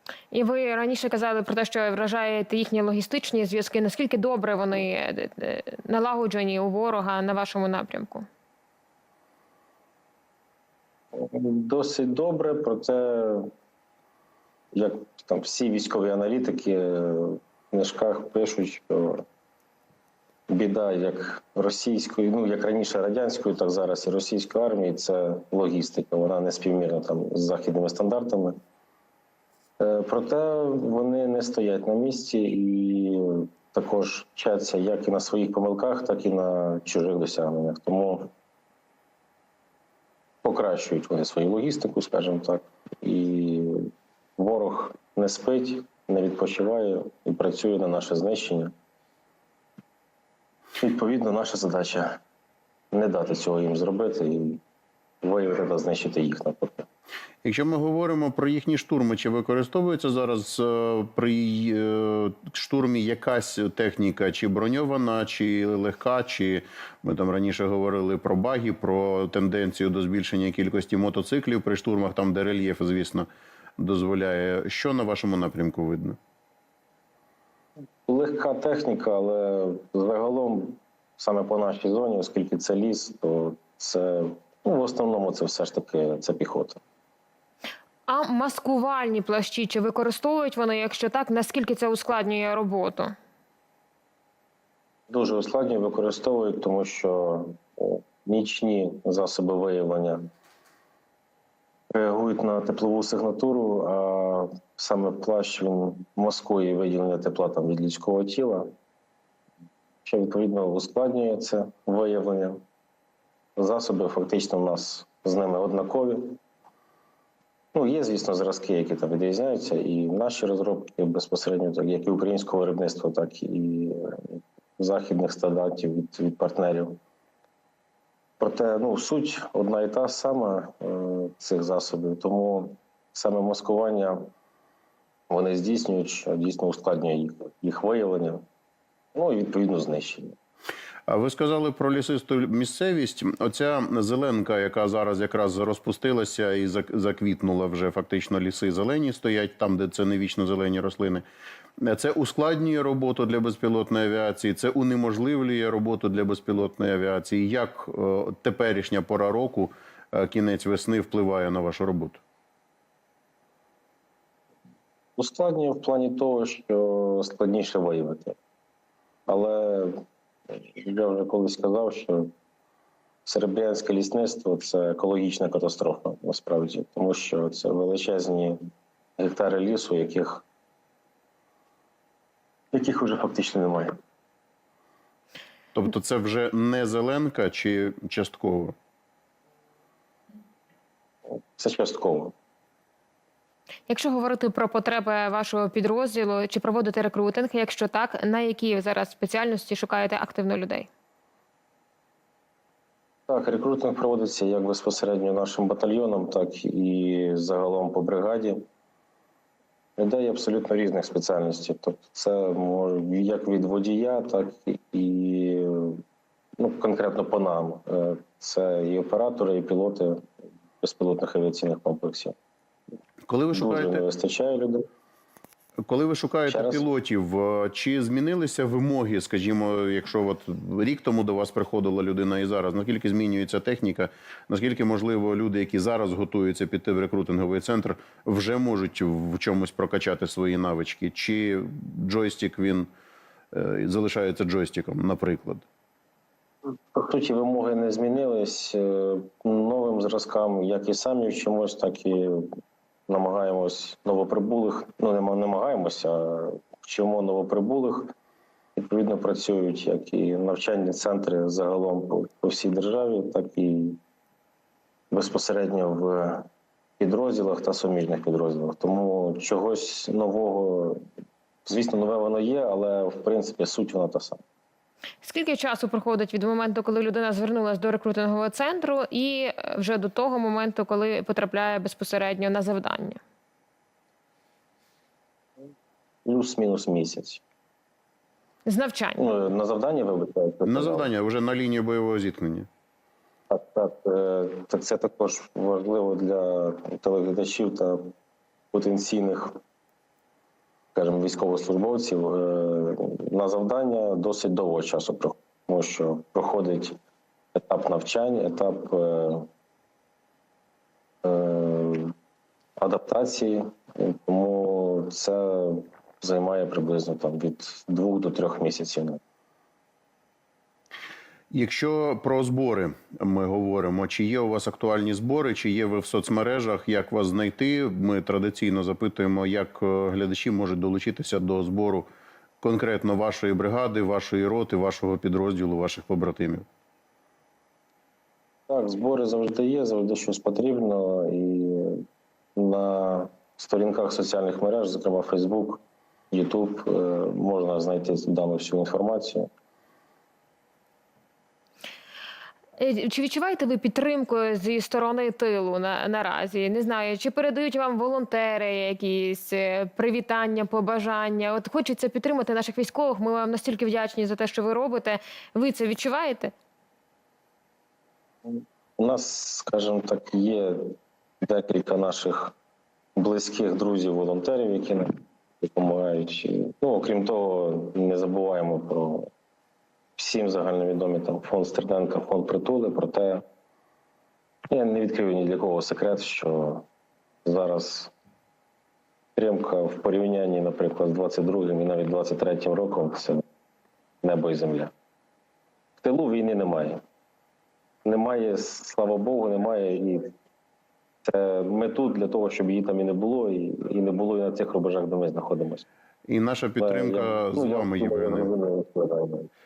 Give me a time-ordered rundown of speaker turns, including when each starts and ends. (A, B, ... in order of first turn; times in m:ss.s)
0:00.3-0:08.3 A
0:11.1-0:13.5 B
0:14.7-0:19.2 B
0:20.5-0:28.6 B
0:29.8-0:38.3 B
0:40.4-0:48.7 B
0:50.8-0:52.2 B
0:52.9-0:54.6 B
0:55.2-0:56.8 B
0:57.4-1:16.2 C
1:18.0-1:26.8 B
1:28.1-1:33.1 A
1:35.1-1:40.2 B
1:41.9-1:48.7 B
1:50.0-1:52.6 B
1:53.6-1:56.4 B
1:57.7-2:07.0 B
2:08.4-2:14.3 B
2:15.3-2:18.4 B
2:19.1-2:20.3 B
2:21.1-2:31.2 C
2:31.8-2:42.2 C
2:45.2-2:48.4 B
2:49.3-2:50.0 B
2:50.5-2:52.3 B
2:53.2-2:58.6 B
2:59.2-3:00.4 B
3:02.7-3:03.9 B
3:05.7-3:08.7 C
3:11.6-3:12.3 B
3:13.9-3:20.9 A
3:23.3-3:28.6 B
3:30.0-3:36.0 B
3:36.6-3:40.3 B
3:40.8-3:42.3 B
3:43.3-3:44.0 C
3:43.5-3:44.9 B
3:45.8-4:02.9 C
3:46.5-3:46.8 B
4:03.5-4:05.6 C
4:06.9-4:12.5 B
4:13.1-4:18.1 B
4:18.8-4:24.0 B
4:25.1-4:26.5 B
4:27.0-4:31.0 B
4:31.6-4:34.4 B
4:35.2-4:43.2 A
4:46.2-4:47.4 B
4:48.6-4:49.2 A
4:49.2-4:51.1 B
4:50.6-4:52.7 C
4:53.5-4:58.1 B
4:58.7-4:59.5 B
5:00.9-5:07.0 B
5:07.5-5:09.5 B
5:11.2-5:12.1 B
5:12.8-5:19.2 B
5:21.5-5:32.1 C
5:32.6-5:36.6 C
5:38.7-5:42.0 B
5:42.6-5:49.5 B
5:52.8-6:06.5 A
6:08.4-6:12.5 B
6:13.2-6:15.1 B
6:15.6-6:19.3 B
6:20.2-6:23.4 B
6:24.7-6:26.8 B
6:27.4-6:28.1 B
6:29.4-6:33.4 B
6:34.2-6:34.9 B
6:36.0-6:37.0 B
6:38.0-6:40.3 B
6:41.2-6:45.8 B
6:46.3-6:48.5 C
6:46.8-6:49.5 B